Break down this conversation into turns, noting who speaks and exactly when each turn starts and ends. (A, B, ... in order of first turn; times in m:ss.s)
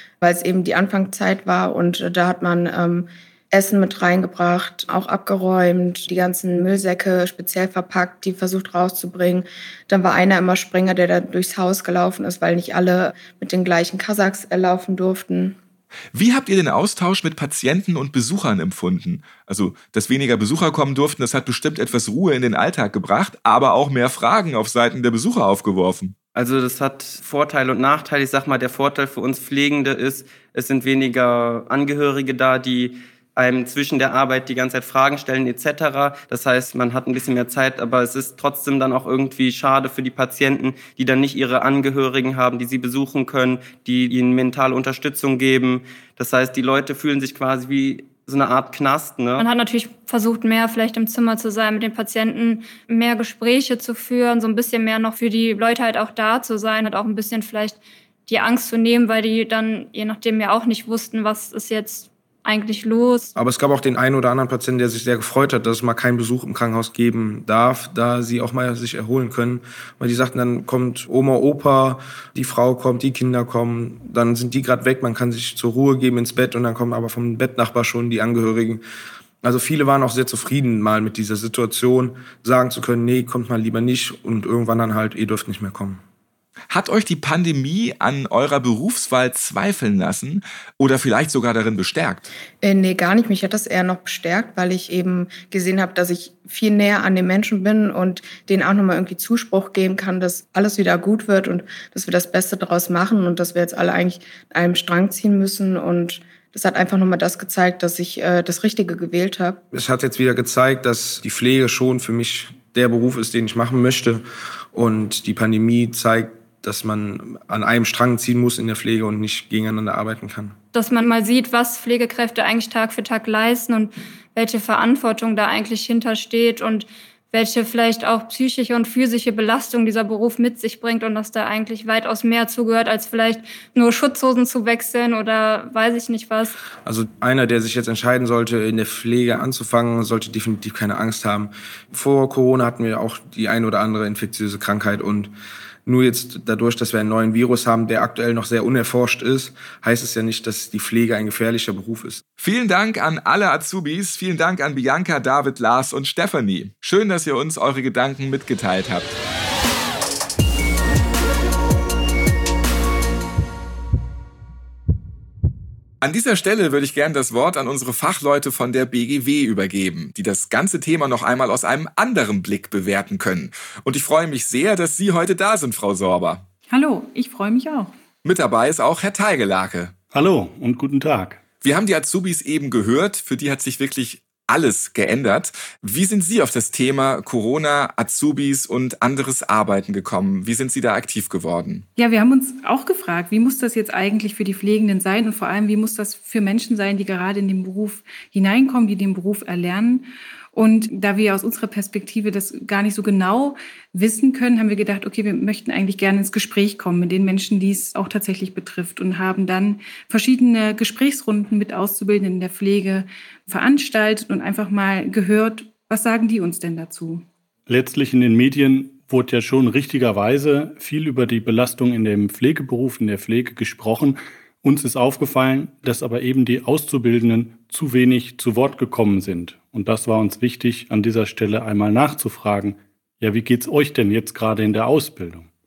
0:00.2-0:15.6 A
0:16.1-0:26.2 B
0:26.4-0:49.5 C
0:49.4-1:03.3 D
1:03.4-1:18.8 E
1:19.4-1:26.0 E
1:26.7-1:32.3 B
1:32.6-1:49.6 A
1:49.7-2:00.6 E
2:00.7-2:16.6 D
2:16.8-2:25.3 E
2:25.9-2:32.2 E
2:32.4-2:39.2 B
2:46.0-2:56.4 B
2:56.7-2:57.9 F
2:58.2-2:59.9 B
3:00.1-3:01.4 G
3:01.6-3:11.9 B
3:12.0-3:37.2 F
3:37.7-3:55.5 G